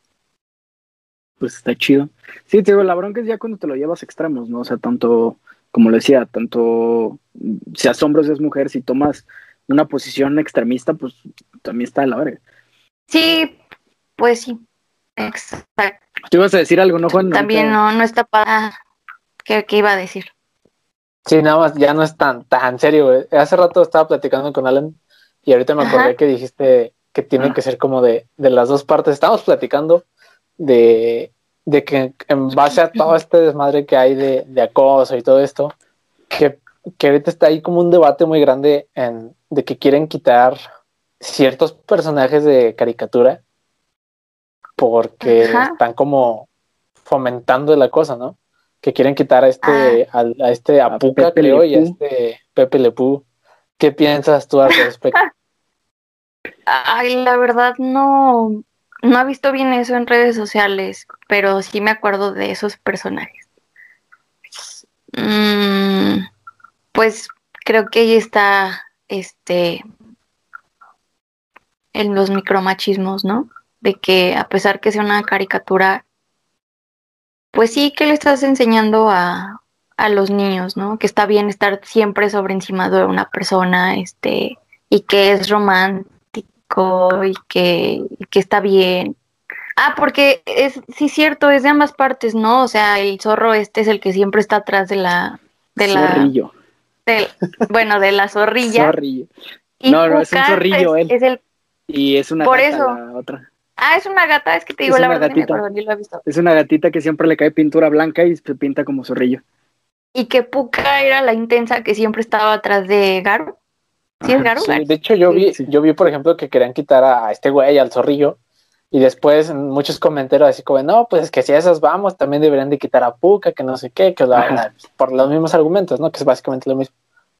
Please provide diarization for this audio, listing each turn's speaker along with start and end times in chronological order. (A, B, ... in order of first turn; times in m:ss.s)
0:01.4-0:12.4 A
0:13.1-0:13.6 B
0:14.2-0:14.6 B
0:15.2-0:16.0 B
0:16.3-0:17.8 A
0:17.1-0:18.8 B
0:19.4-0:20.3 B
0:21.2-0:30.0 C
0:25.8-0:26.1 B
0:30.6-0:35.7 C
0:36.3-0:40.6 C
0:41.2-0:43.4 C
0:44.8-0:46.5 C
0:45.2-0:45.8 B
0:47.0-0:53.2 C
0:49.6-0:50.0 B
0:50.9-0:51.9 A
0:53.8-0:55.2 C
0:56.7-1:03.4 B
1:04.6-1:06.2 B
1:06.9-1:09.8 B
1:11.9-1:16.0 B
1:17.5-1:29.1 B
1:29.8-1:36.3 B
1:35.8-1:36.5 A
1:37.0-1:38.9 B
1:38.7-1:39.3 A
1:39.8-1:41.4 B
1:39.9-1:41.1 A
1:41.9-1:43.4 A
1:42.4-1:43.0 B
1:43.8-1:46.2 B
1:44.8-1:45.6 A
1:46.2-1:49.4 A
1:50.1-1:53.5 B
1:54.2-1:55.5 B
1:54.5-1:58.4 C
1:58.9-2:06.9 C
2:04.3-2:04.6 A